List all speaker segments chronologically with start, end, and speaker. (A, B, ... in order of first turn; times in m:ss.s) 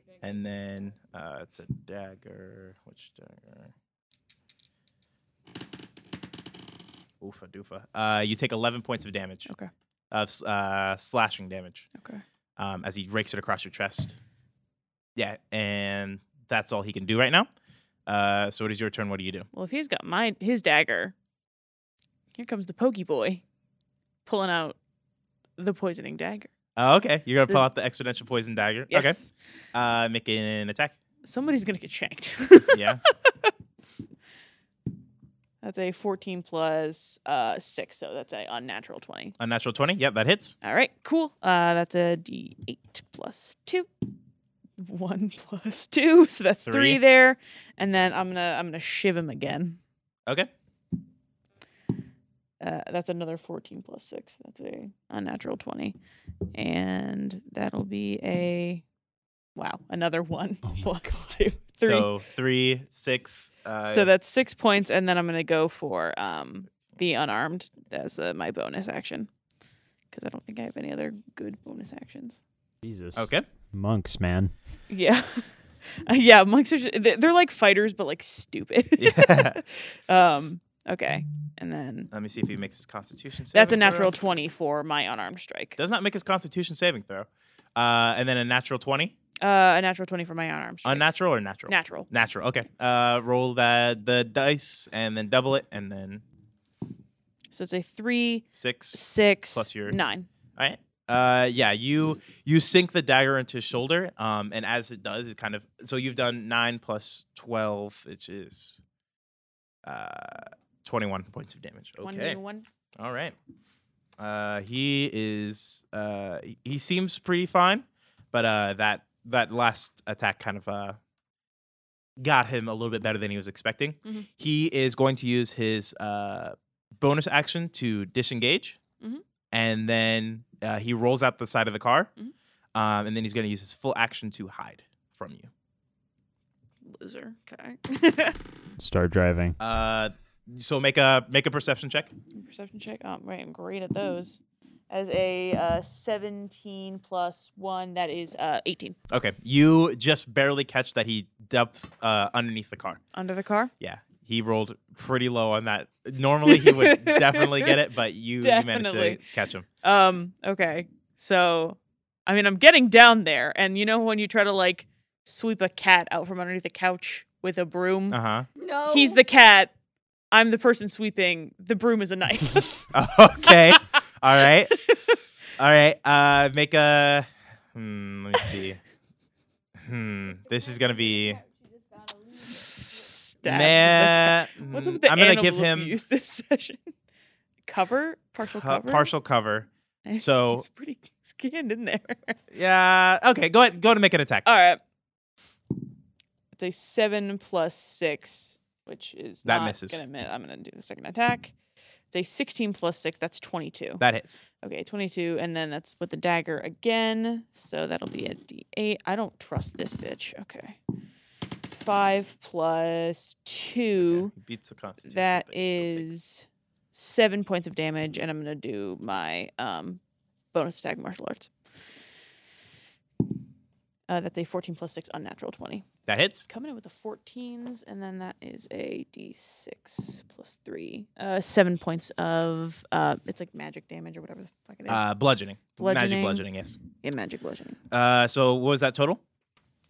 0:00.2-0:03.7 A
0:07.2-0:09.5 A
0:10.1-0:11.9 A
0:12.0-0:12.2 B
0:12.6-0:14.2 A
0:15.2-0:17.5 A
0:18.1-0:19.5 A
0:19.5-0:21.1 B
0:22.3-0:23.4 B
0:24.3-0:24.8 B
0:25.6-0:26.5 B
0:26.8-0:29.2 A
0:28.9-0:29.3 B
0:29.7-0:31.0 A
0:31.2-0:33.5 B
0:32.7-0:33.0 A
0:35.6-0:39.4 B
0:39.4-0:40.6 A
0:40.6-0:43.9 B
0:44.8-0:49.8 B
0:46.7-0:47.0 A
0:52.6-0:56.0 B
0:56.5-0:58.8 B
0:59.6-1:02.1 B
1:00.7-1:01.5 C
1:01.8-1:04.1 A
1:03.9-1:09.3 B
1:10.1-1:12.4 B
1:12.8-1:14.5 C
1:13.2-1:13.5 A
1:14.9-1:22.1 B
1:19.0-1:19.6 A
1:22.1-1:24.1 A
1:23.5-1:25.8 B
1:25.8-1:29.1 A
1:29.4-1:31.1 B
1:30.8-1:36.2 A
1:31.7-1:32.1 B
1:37.5-1:40.3 B
1:38.5-1:40.0 A
1:40.6-1:48.8 A
1:49.8-1:52.4 A
1:52.0-1:52.6 B
1:53.0-1:53.4 A
1:54.2-2:01.0 A
2:02.2-2:08.8 A
2:09.5-2:12.1 A
2:12.8-2:15.5 A
2:16.8-2:18.4 B
2:18.8-2:19.6 C
2:19.6-2:22.1 A
2:22.3-2:29.0 B
2:29.1-2:33.0 A
2:33.1-2:33.7 B
2:33.8-2:39.7 A
2:36.5-2:37.8 B
2:38.4-2:39.2 B
2:39.8-2:48.2 B
2:48.1-2:48.5 A
2:48.7-2:49.7 B
2:50.3-2:53.8 B
2:52.9-2:54.8 A
2:54.7-2:55.2 B
2:55.6-2:58.8 A
2:59.8-3:01.4 A
3:02.3-3:06.8 B
3:03.4-3:06.0 A
3:07.7-3:09.1 B
3:08.4-3:10.6 A
3:10.0-3:12.4 B
3:12.5-3:14.5 A
3:14.5-3:14.8 B
3:16.5-3:21.5 B
3:19.4-3:20.0 A
3:22.1-3:24.0 B
3:24.0-3:24.4 A
3:24.6-3:30.8 B
3:31.7-3:34.3 B
3:34.0-3:36.1 A
3:35.1-3:40.0 B
3:40.5-3:41.5 B
3:44.1-3:45.9 B
3:46.1-3:46.5 A
3:46.5-3:55.0 B
3:54.9-3:56.8 A
3:55.8-3:57.8 B
3:57.9-3:59.2 A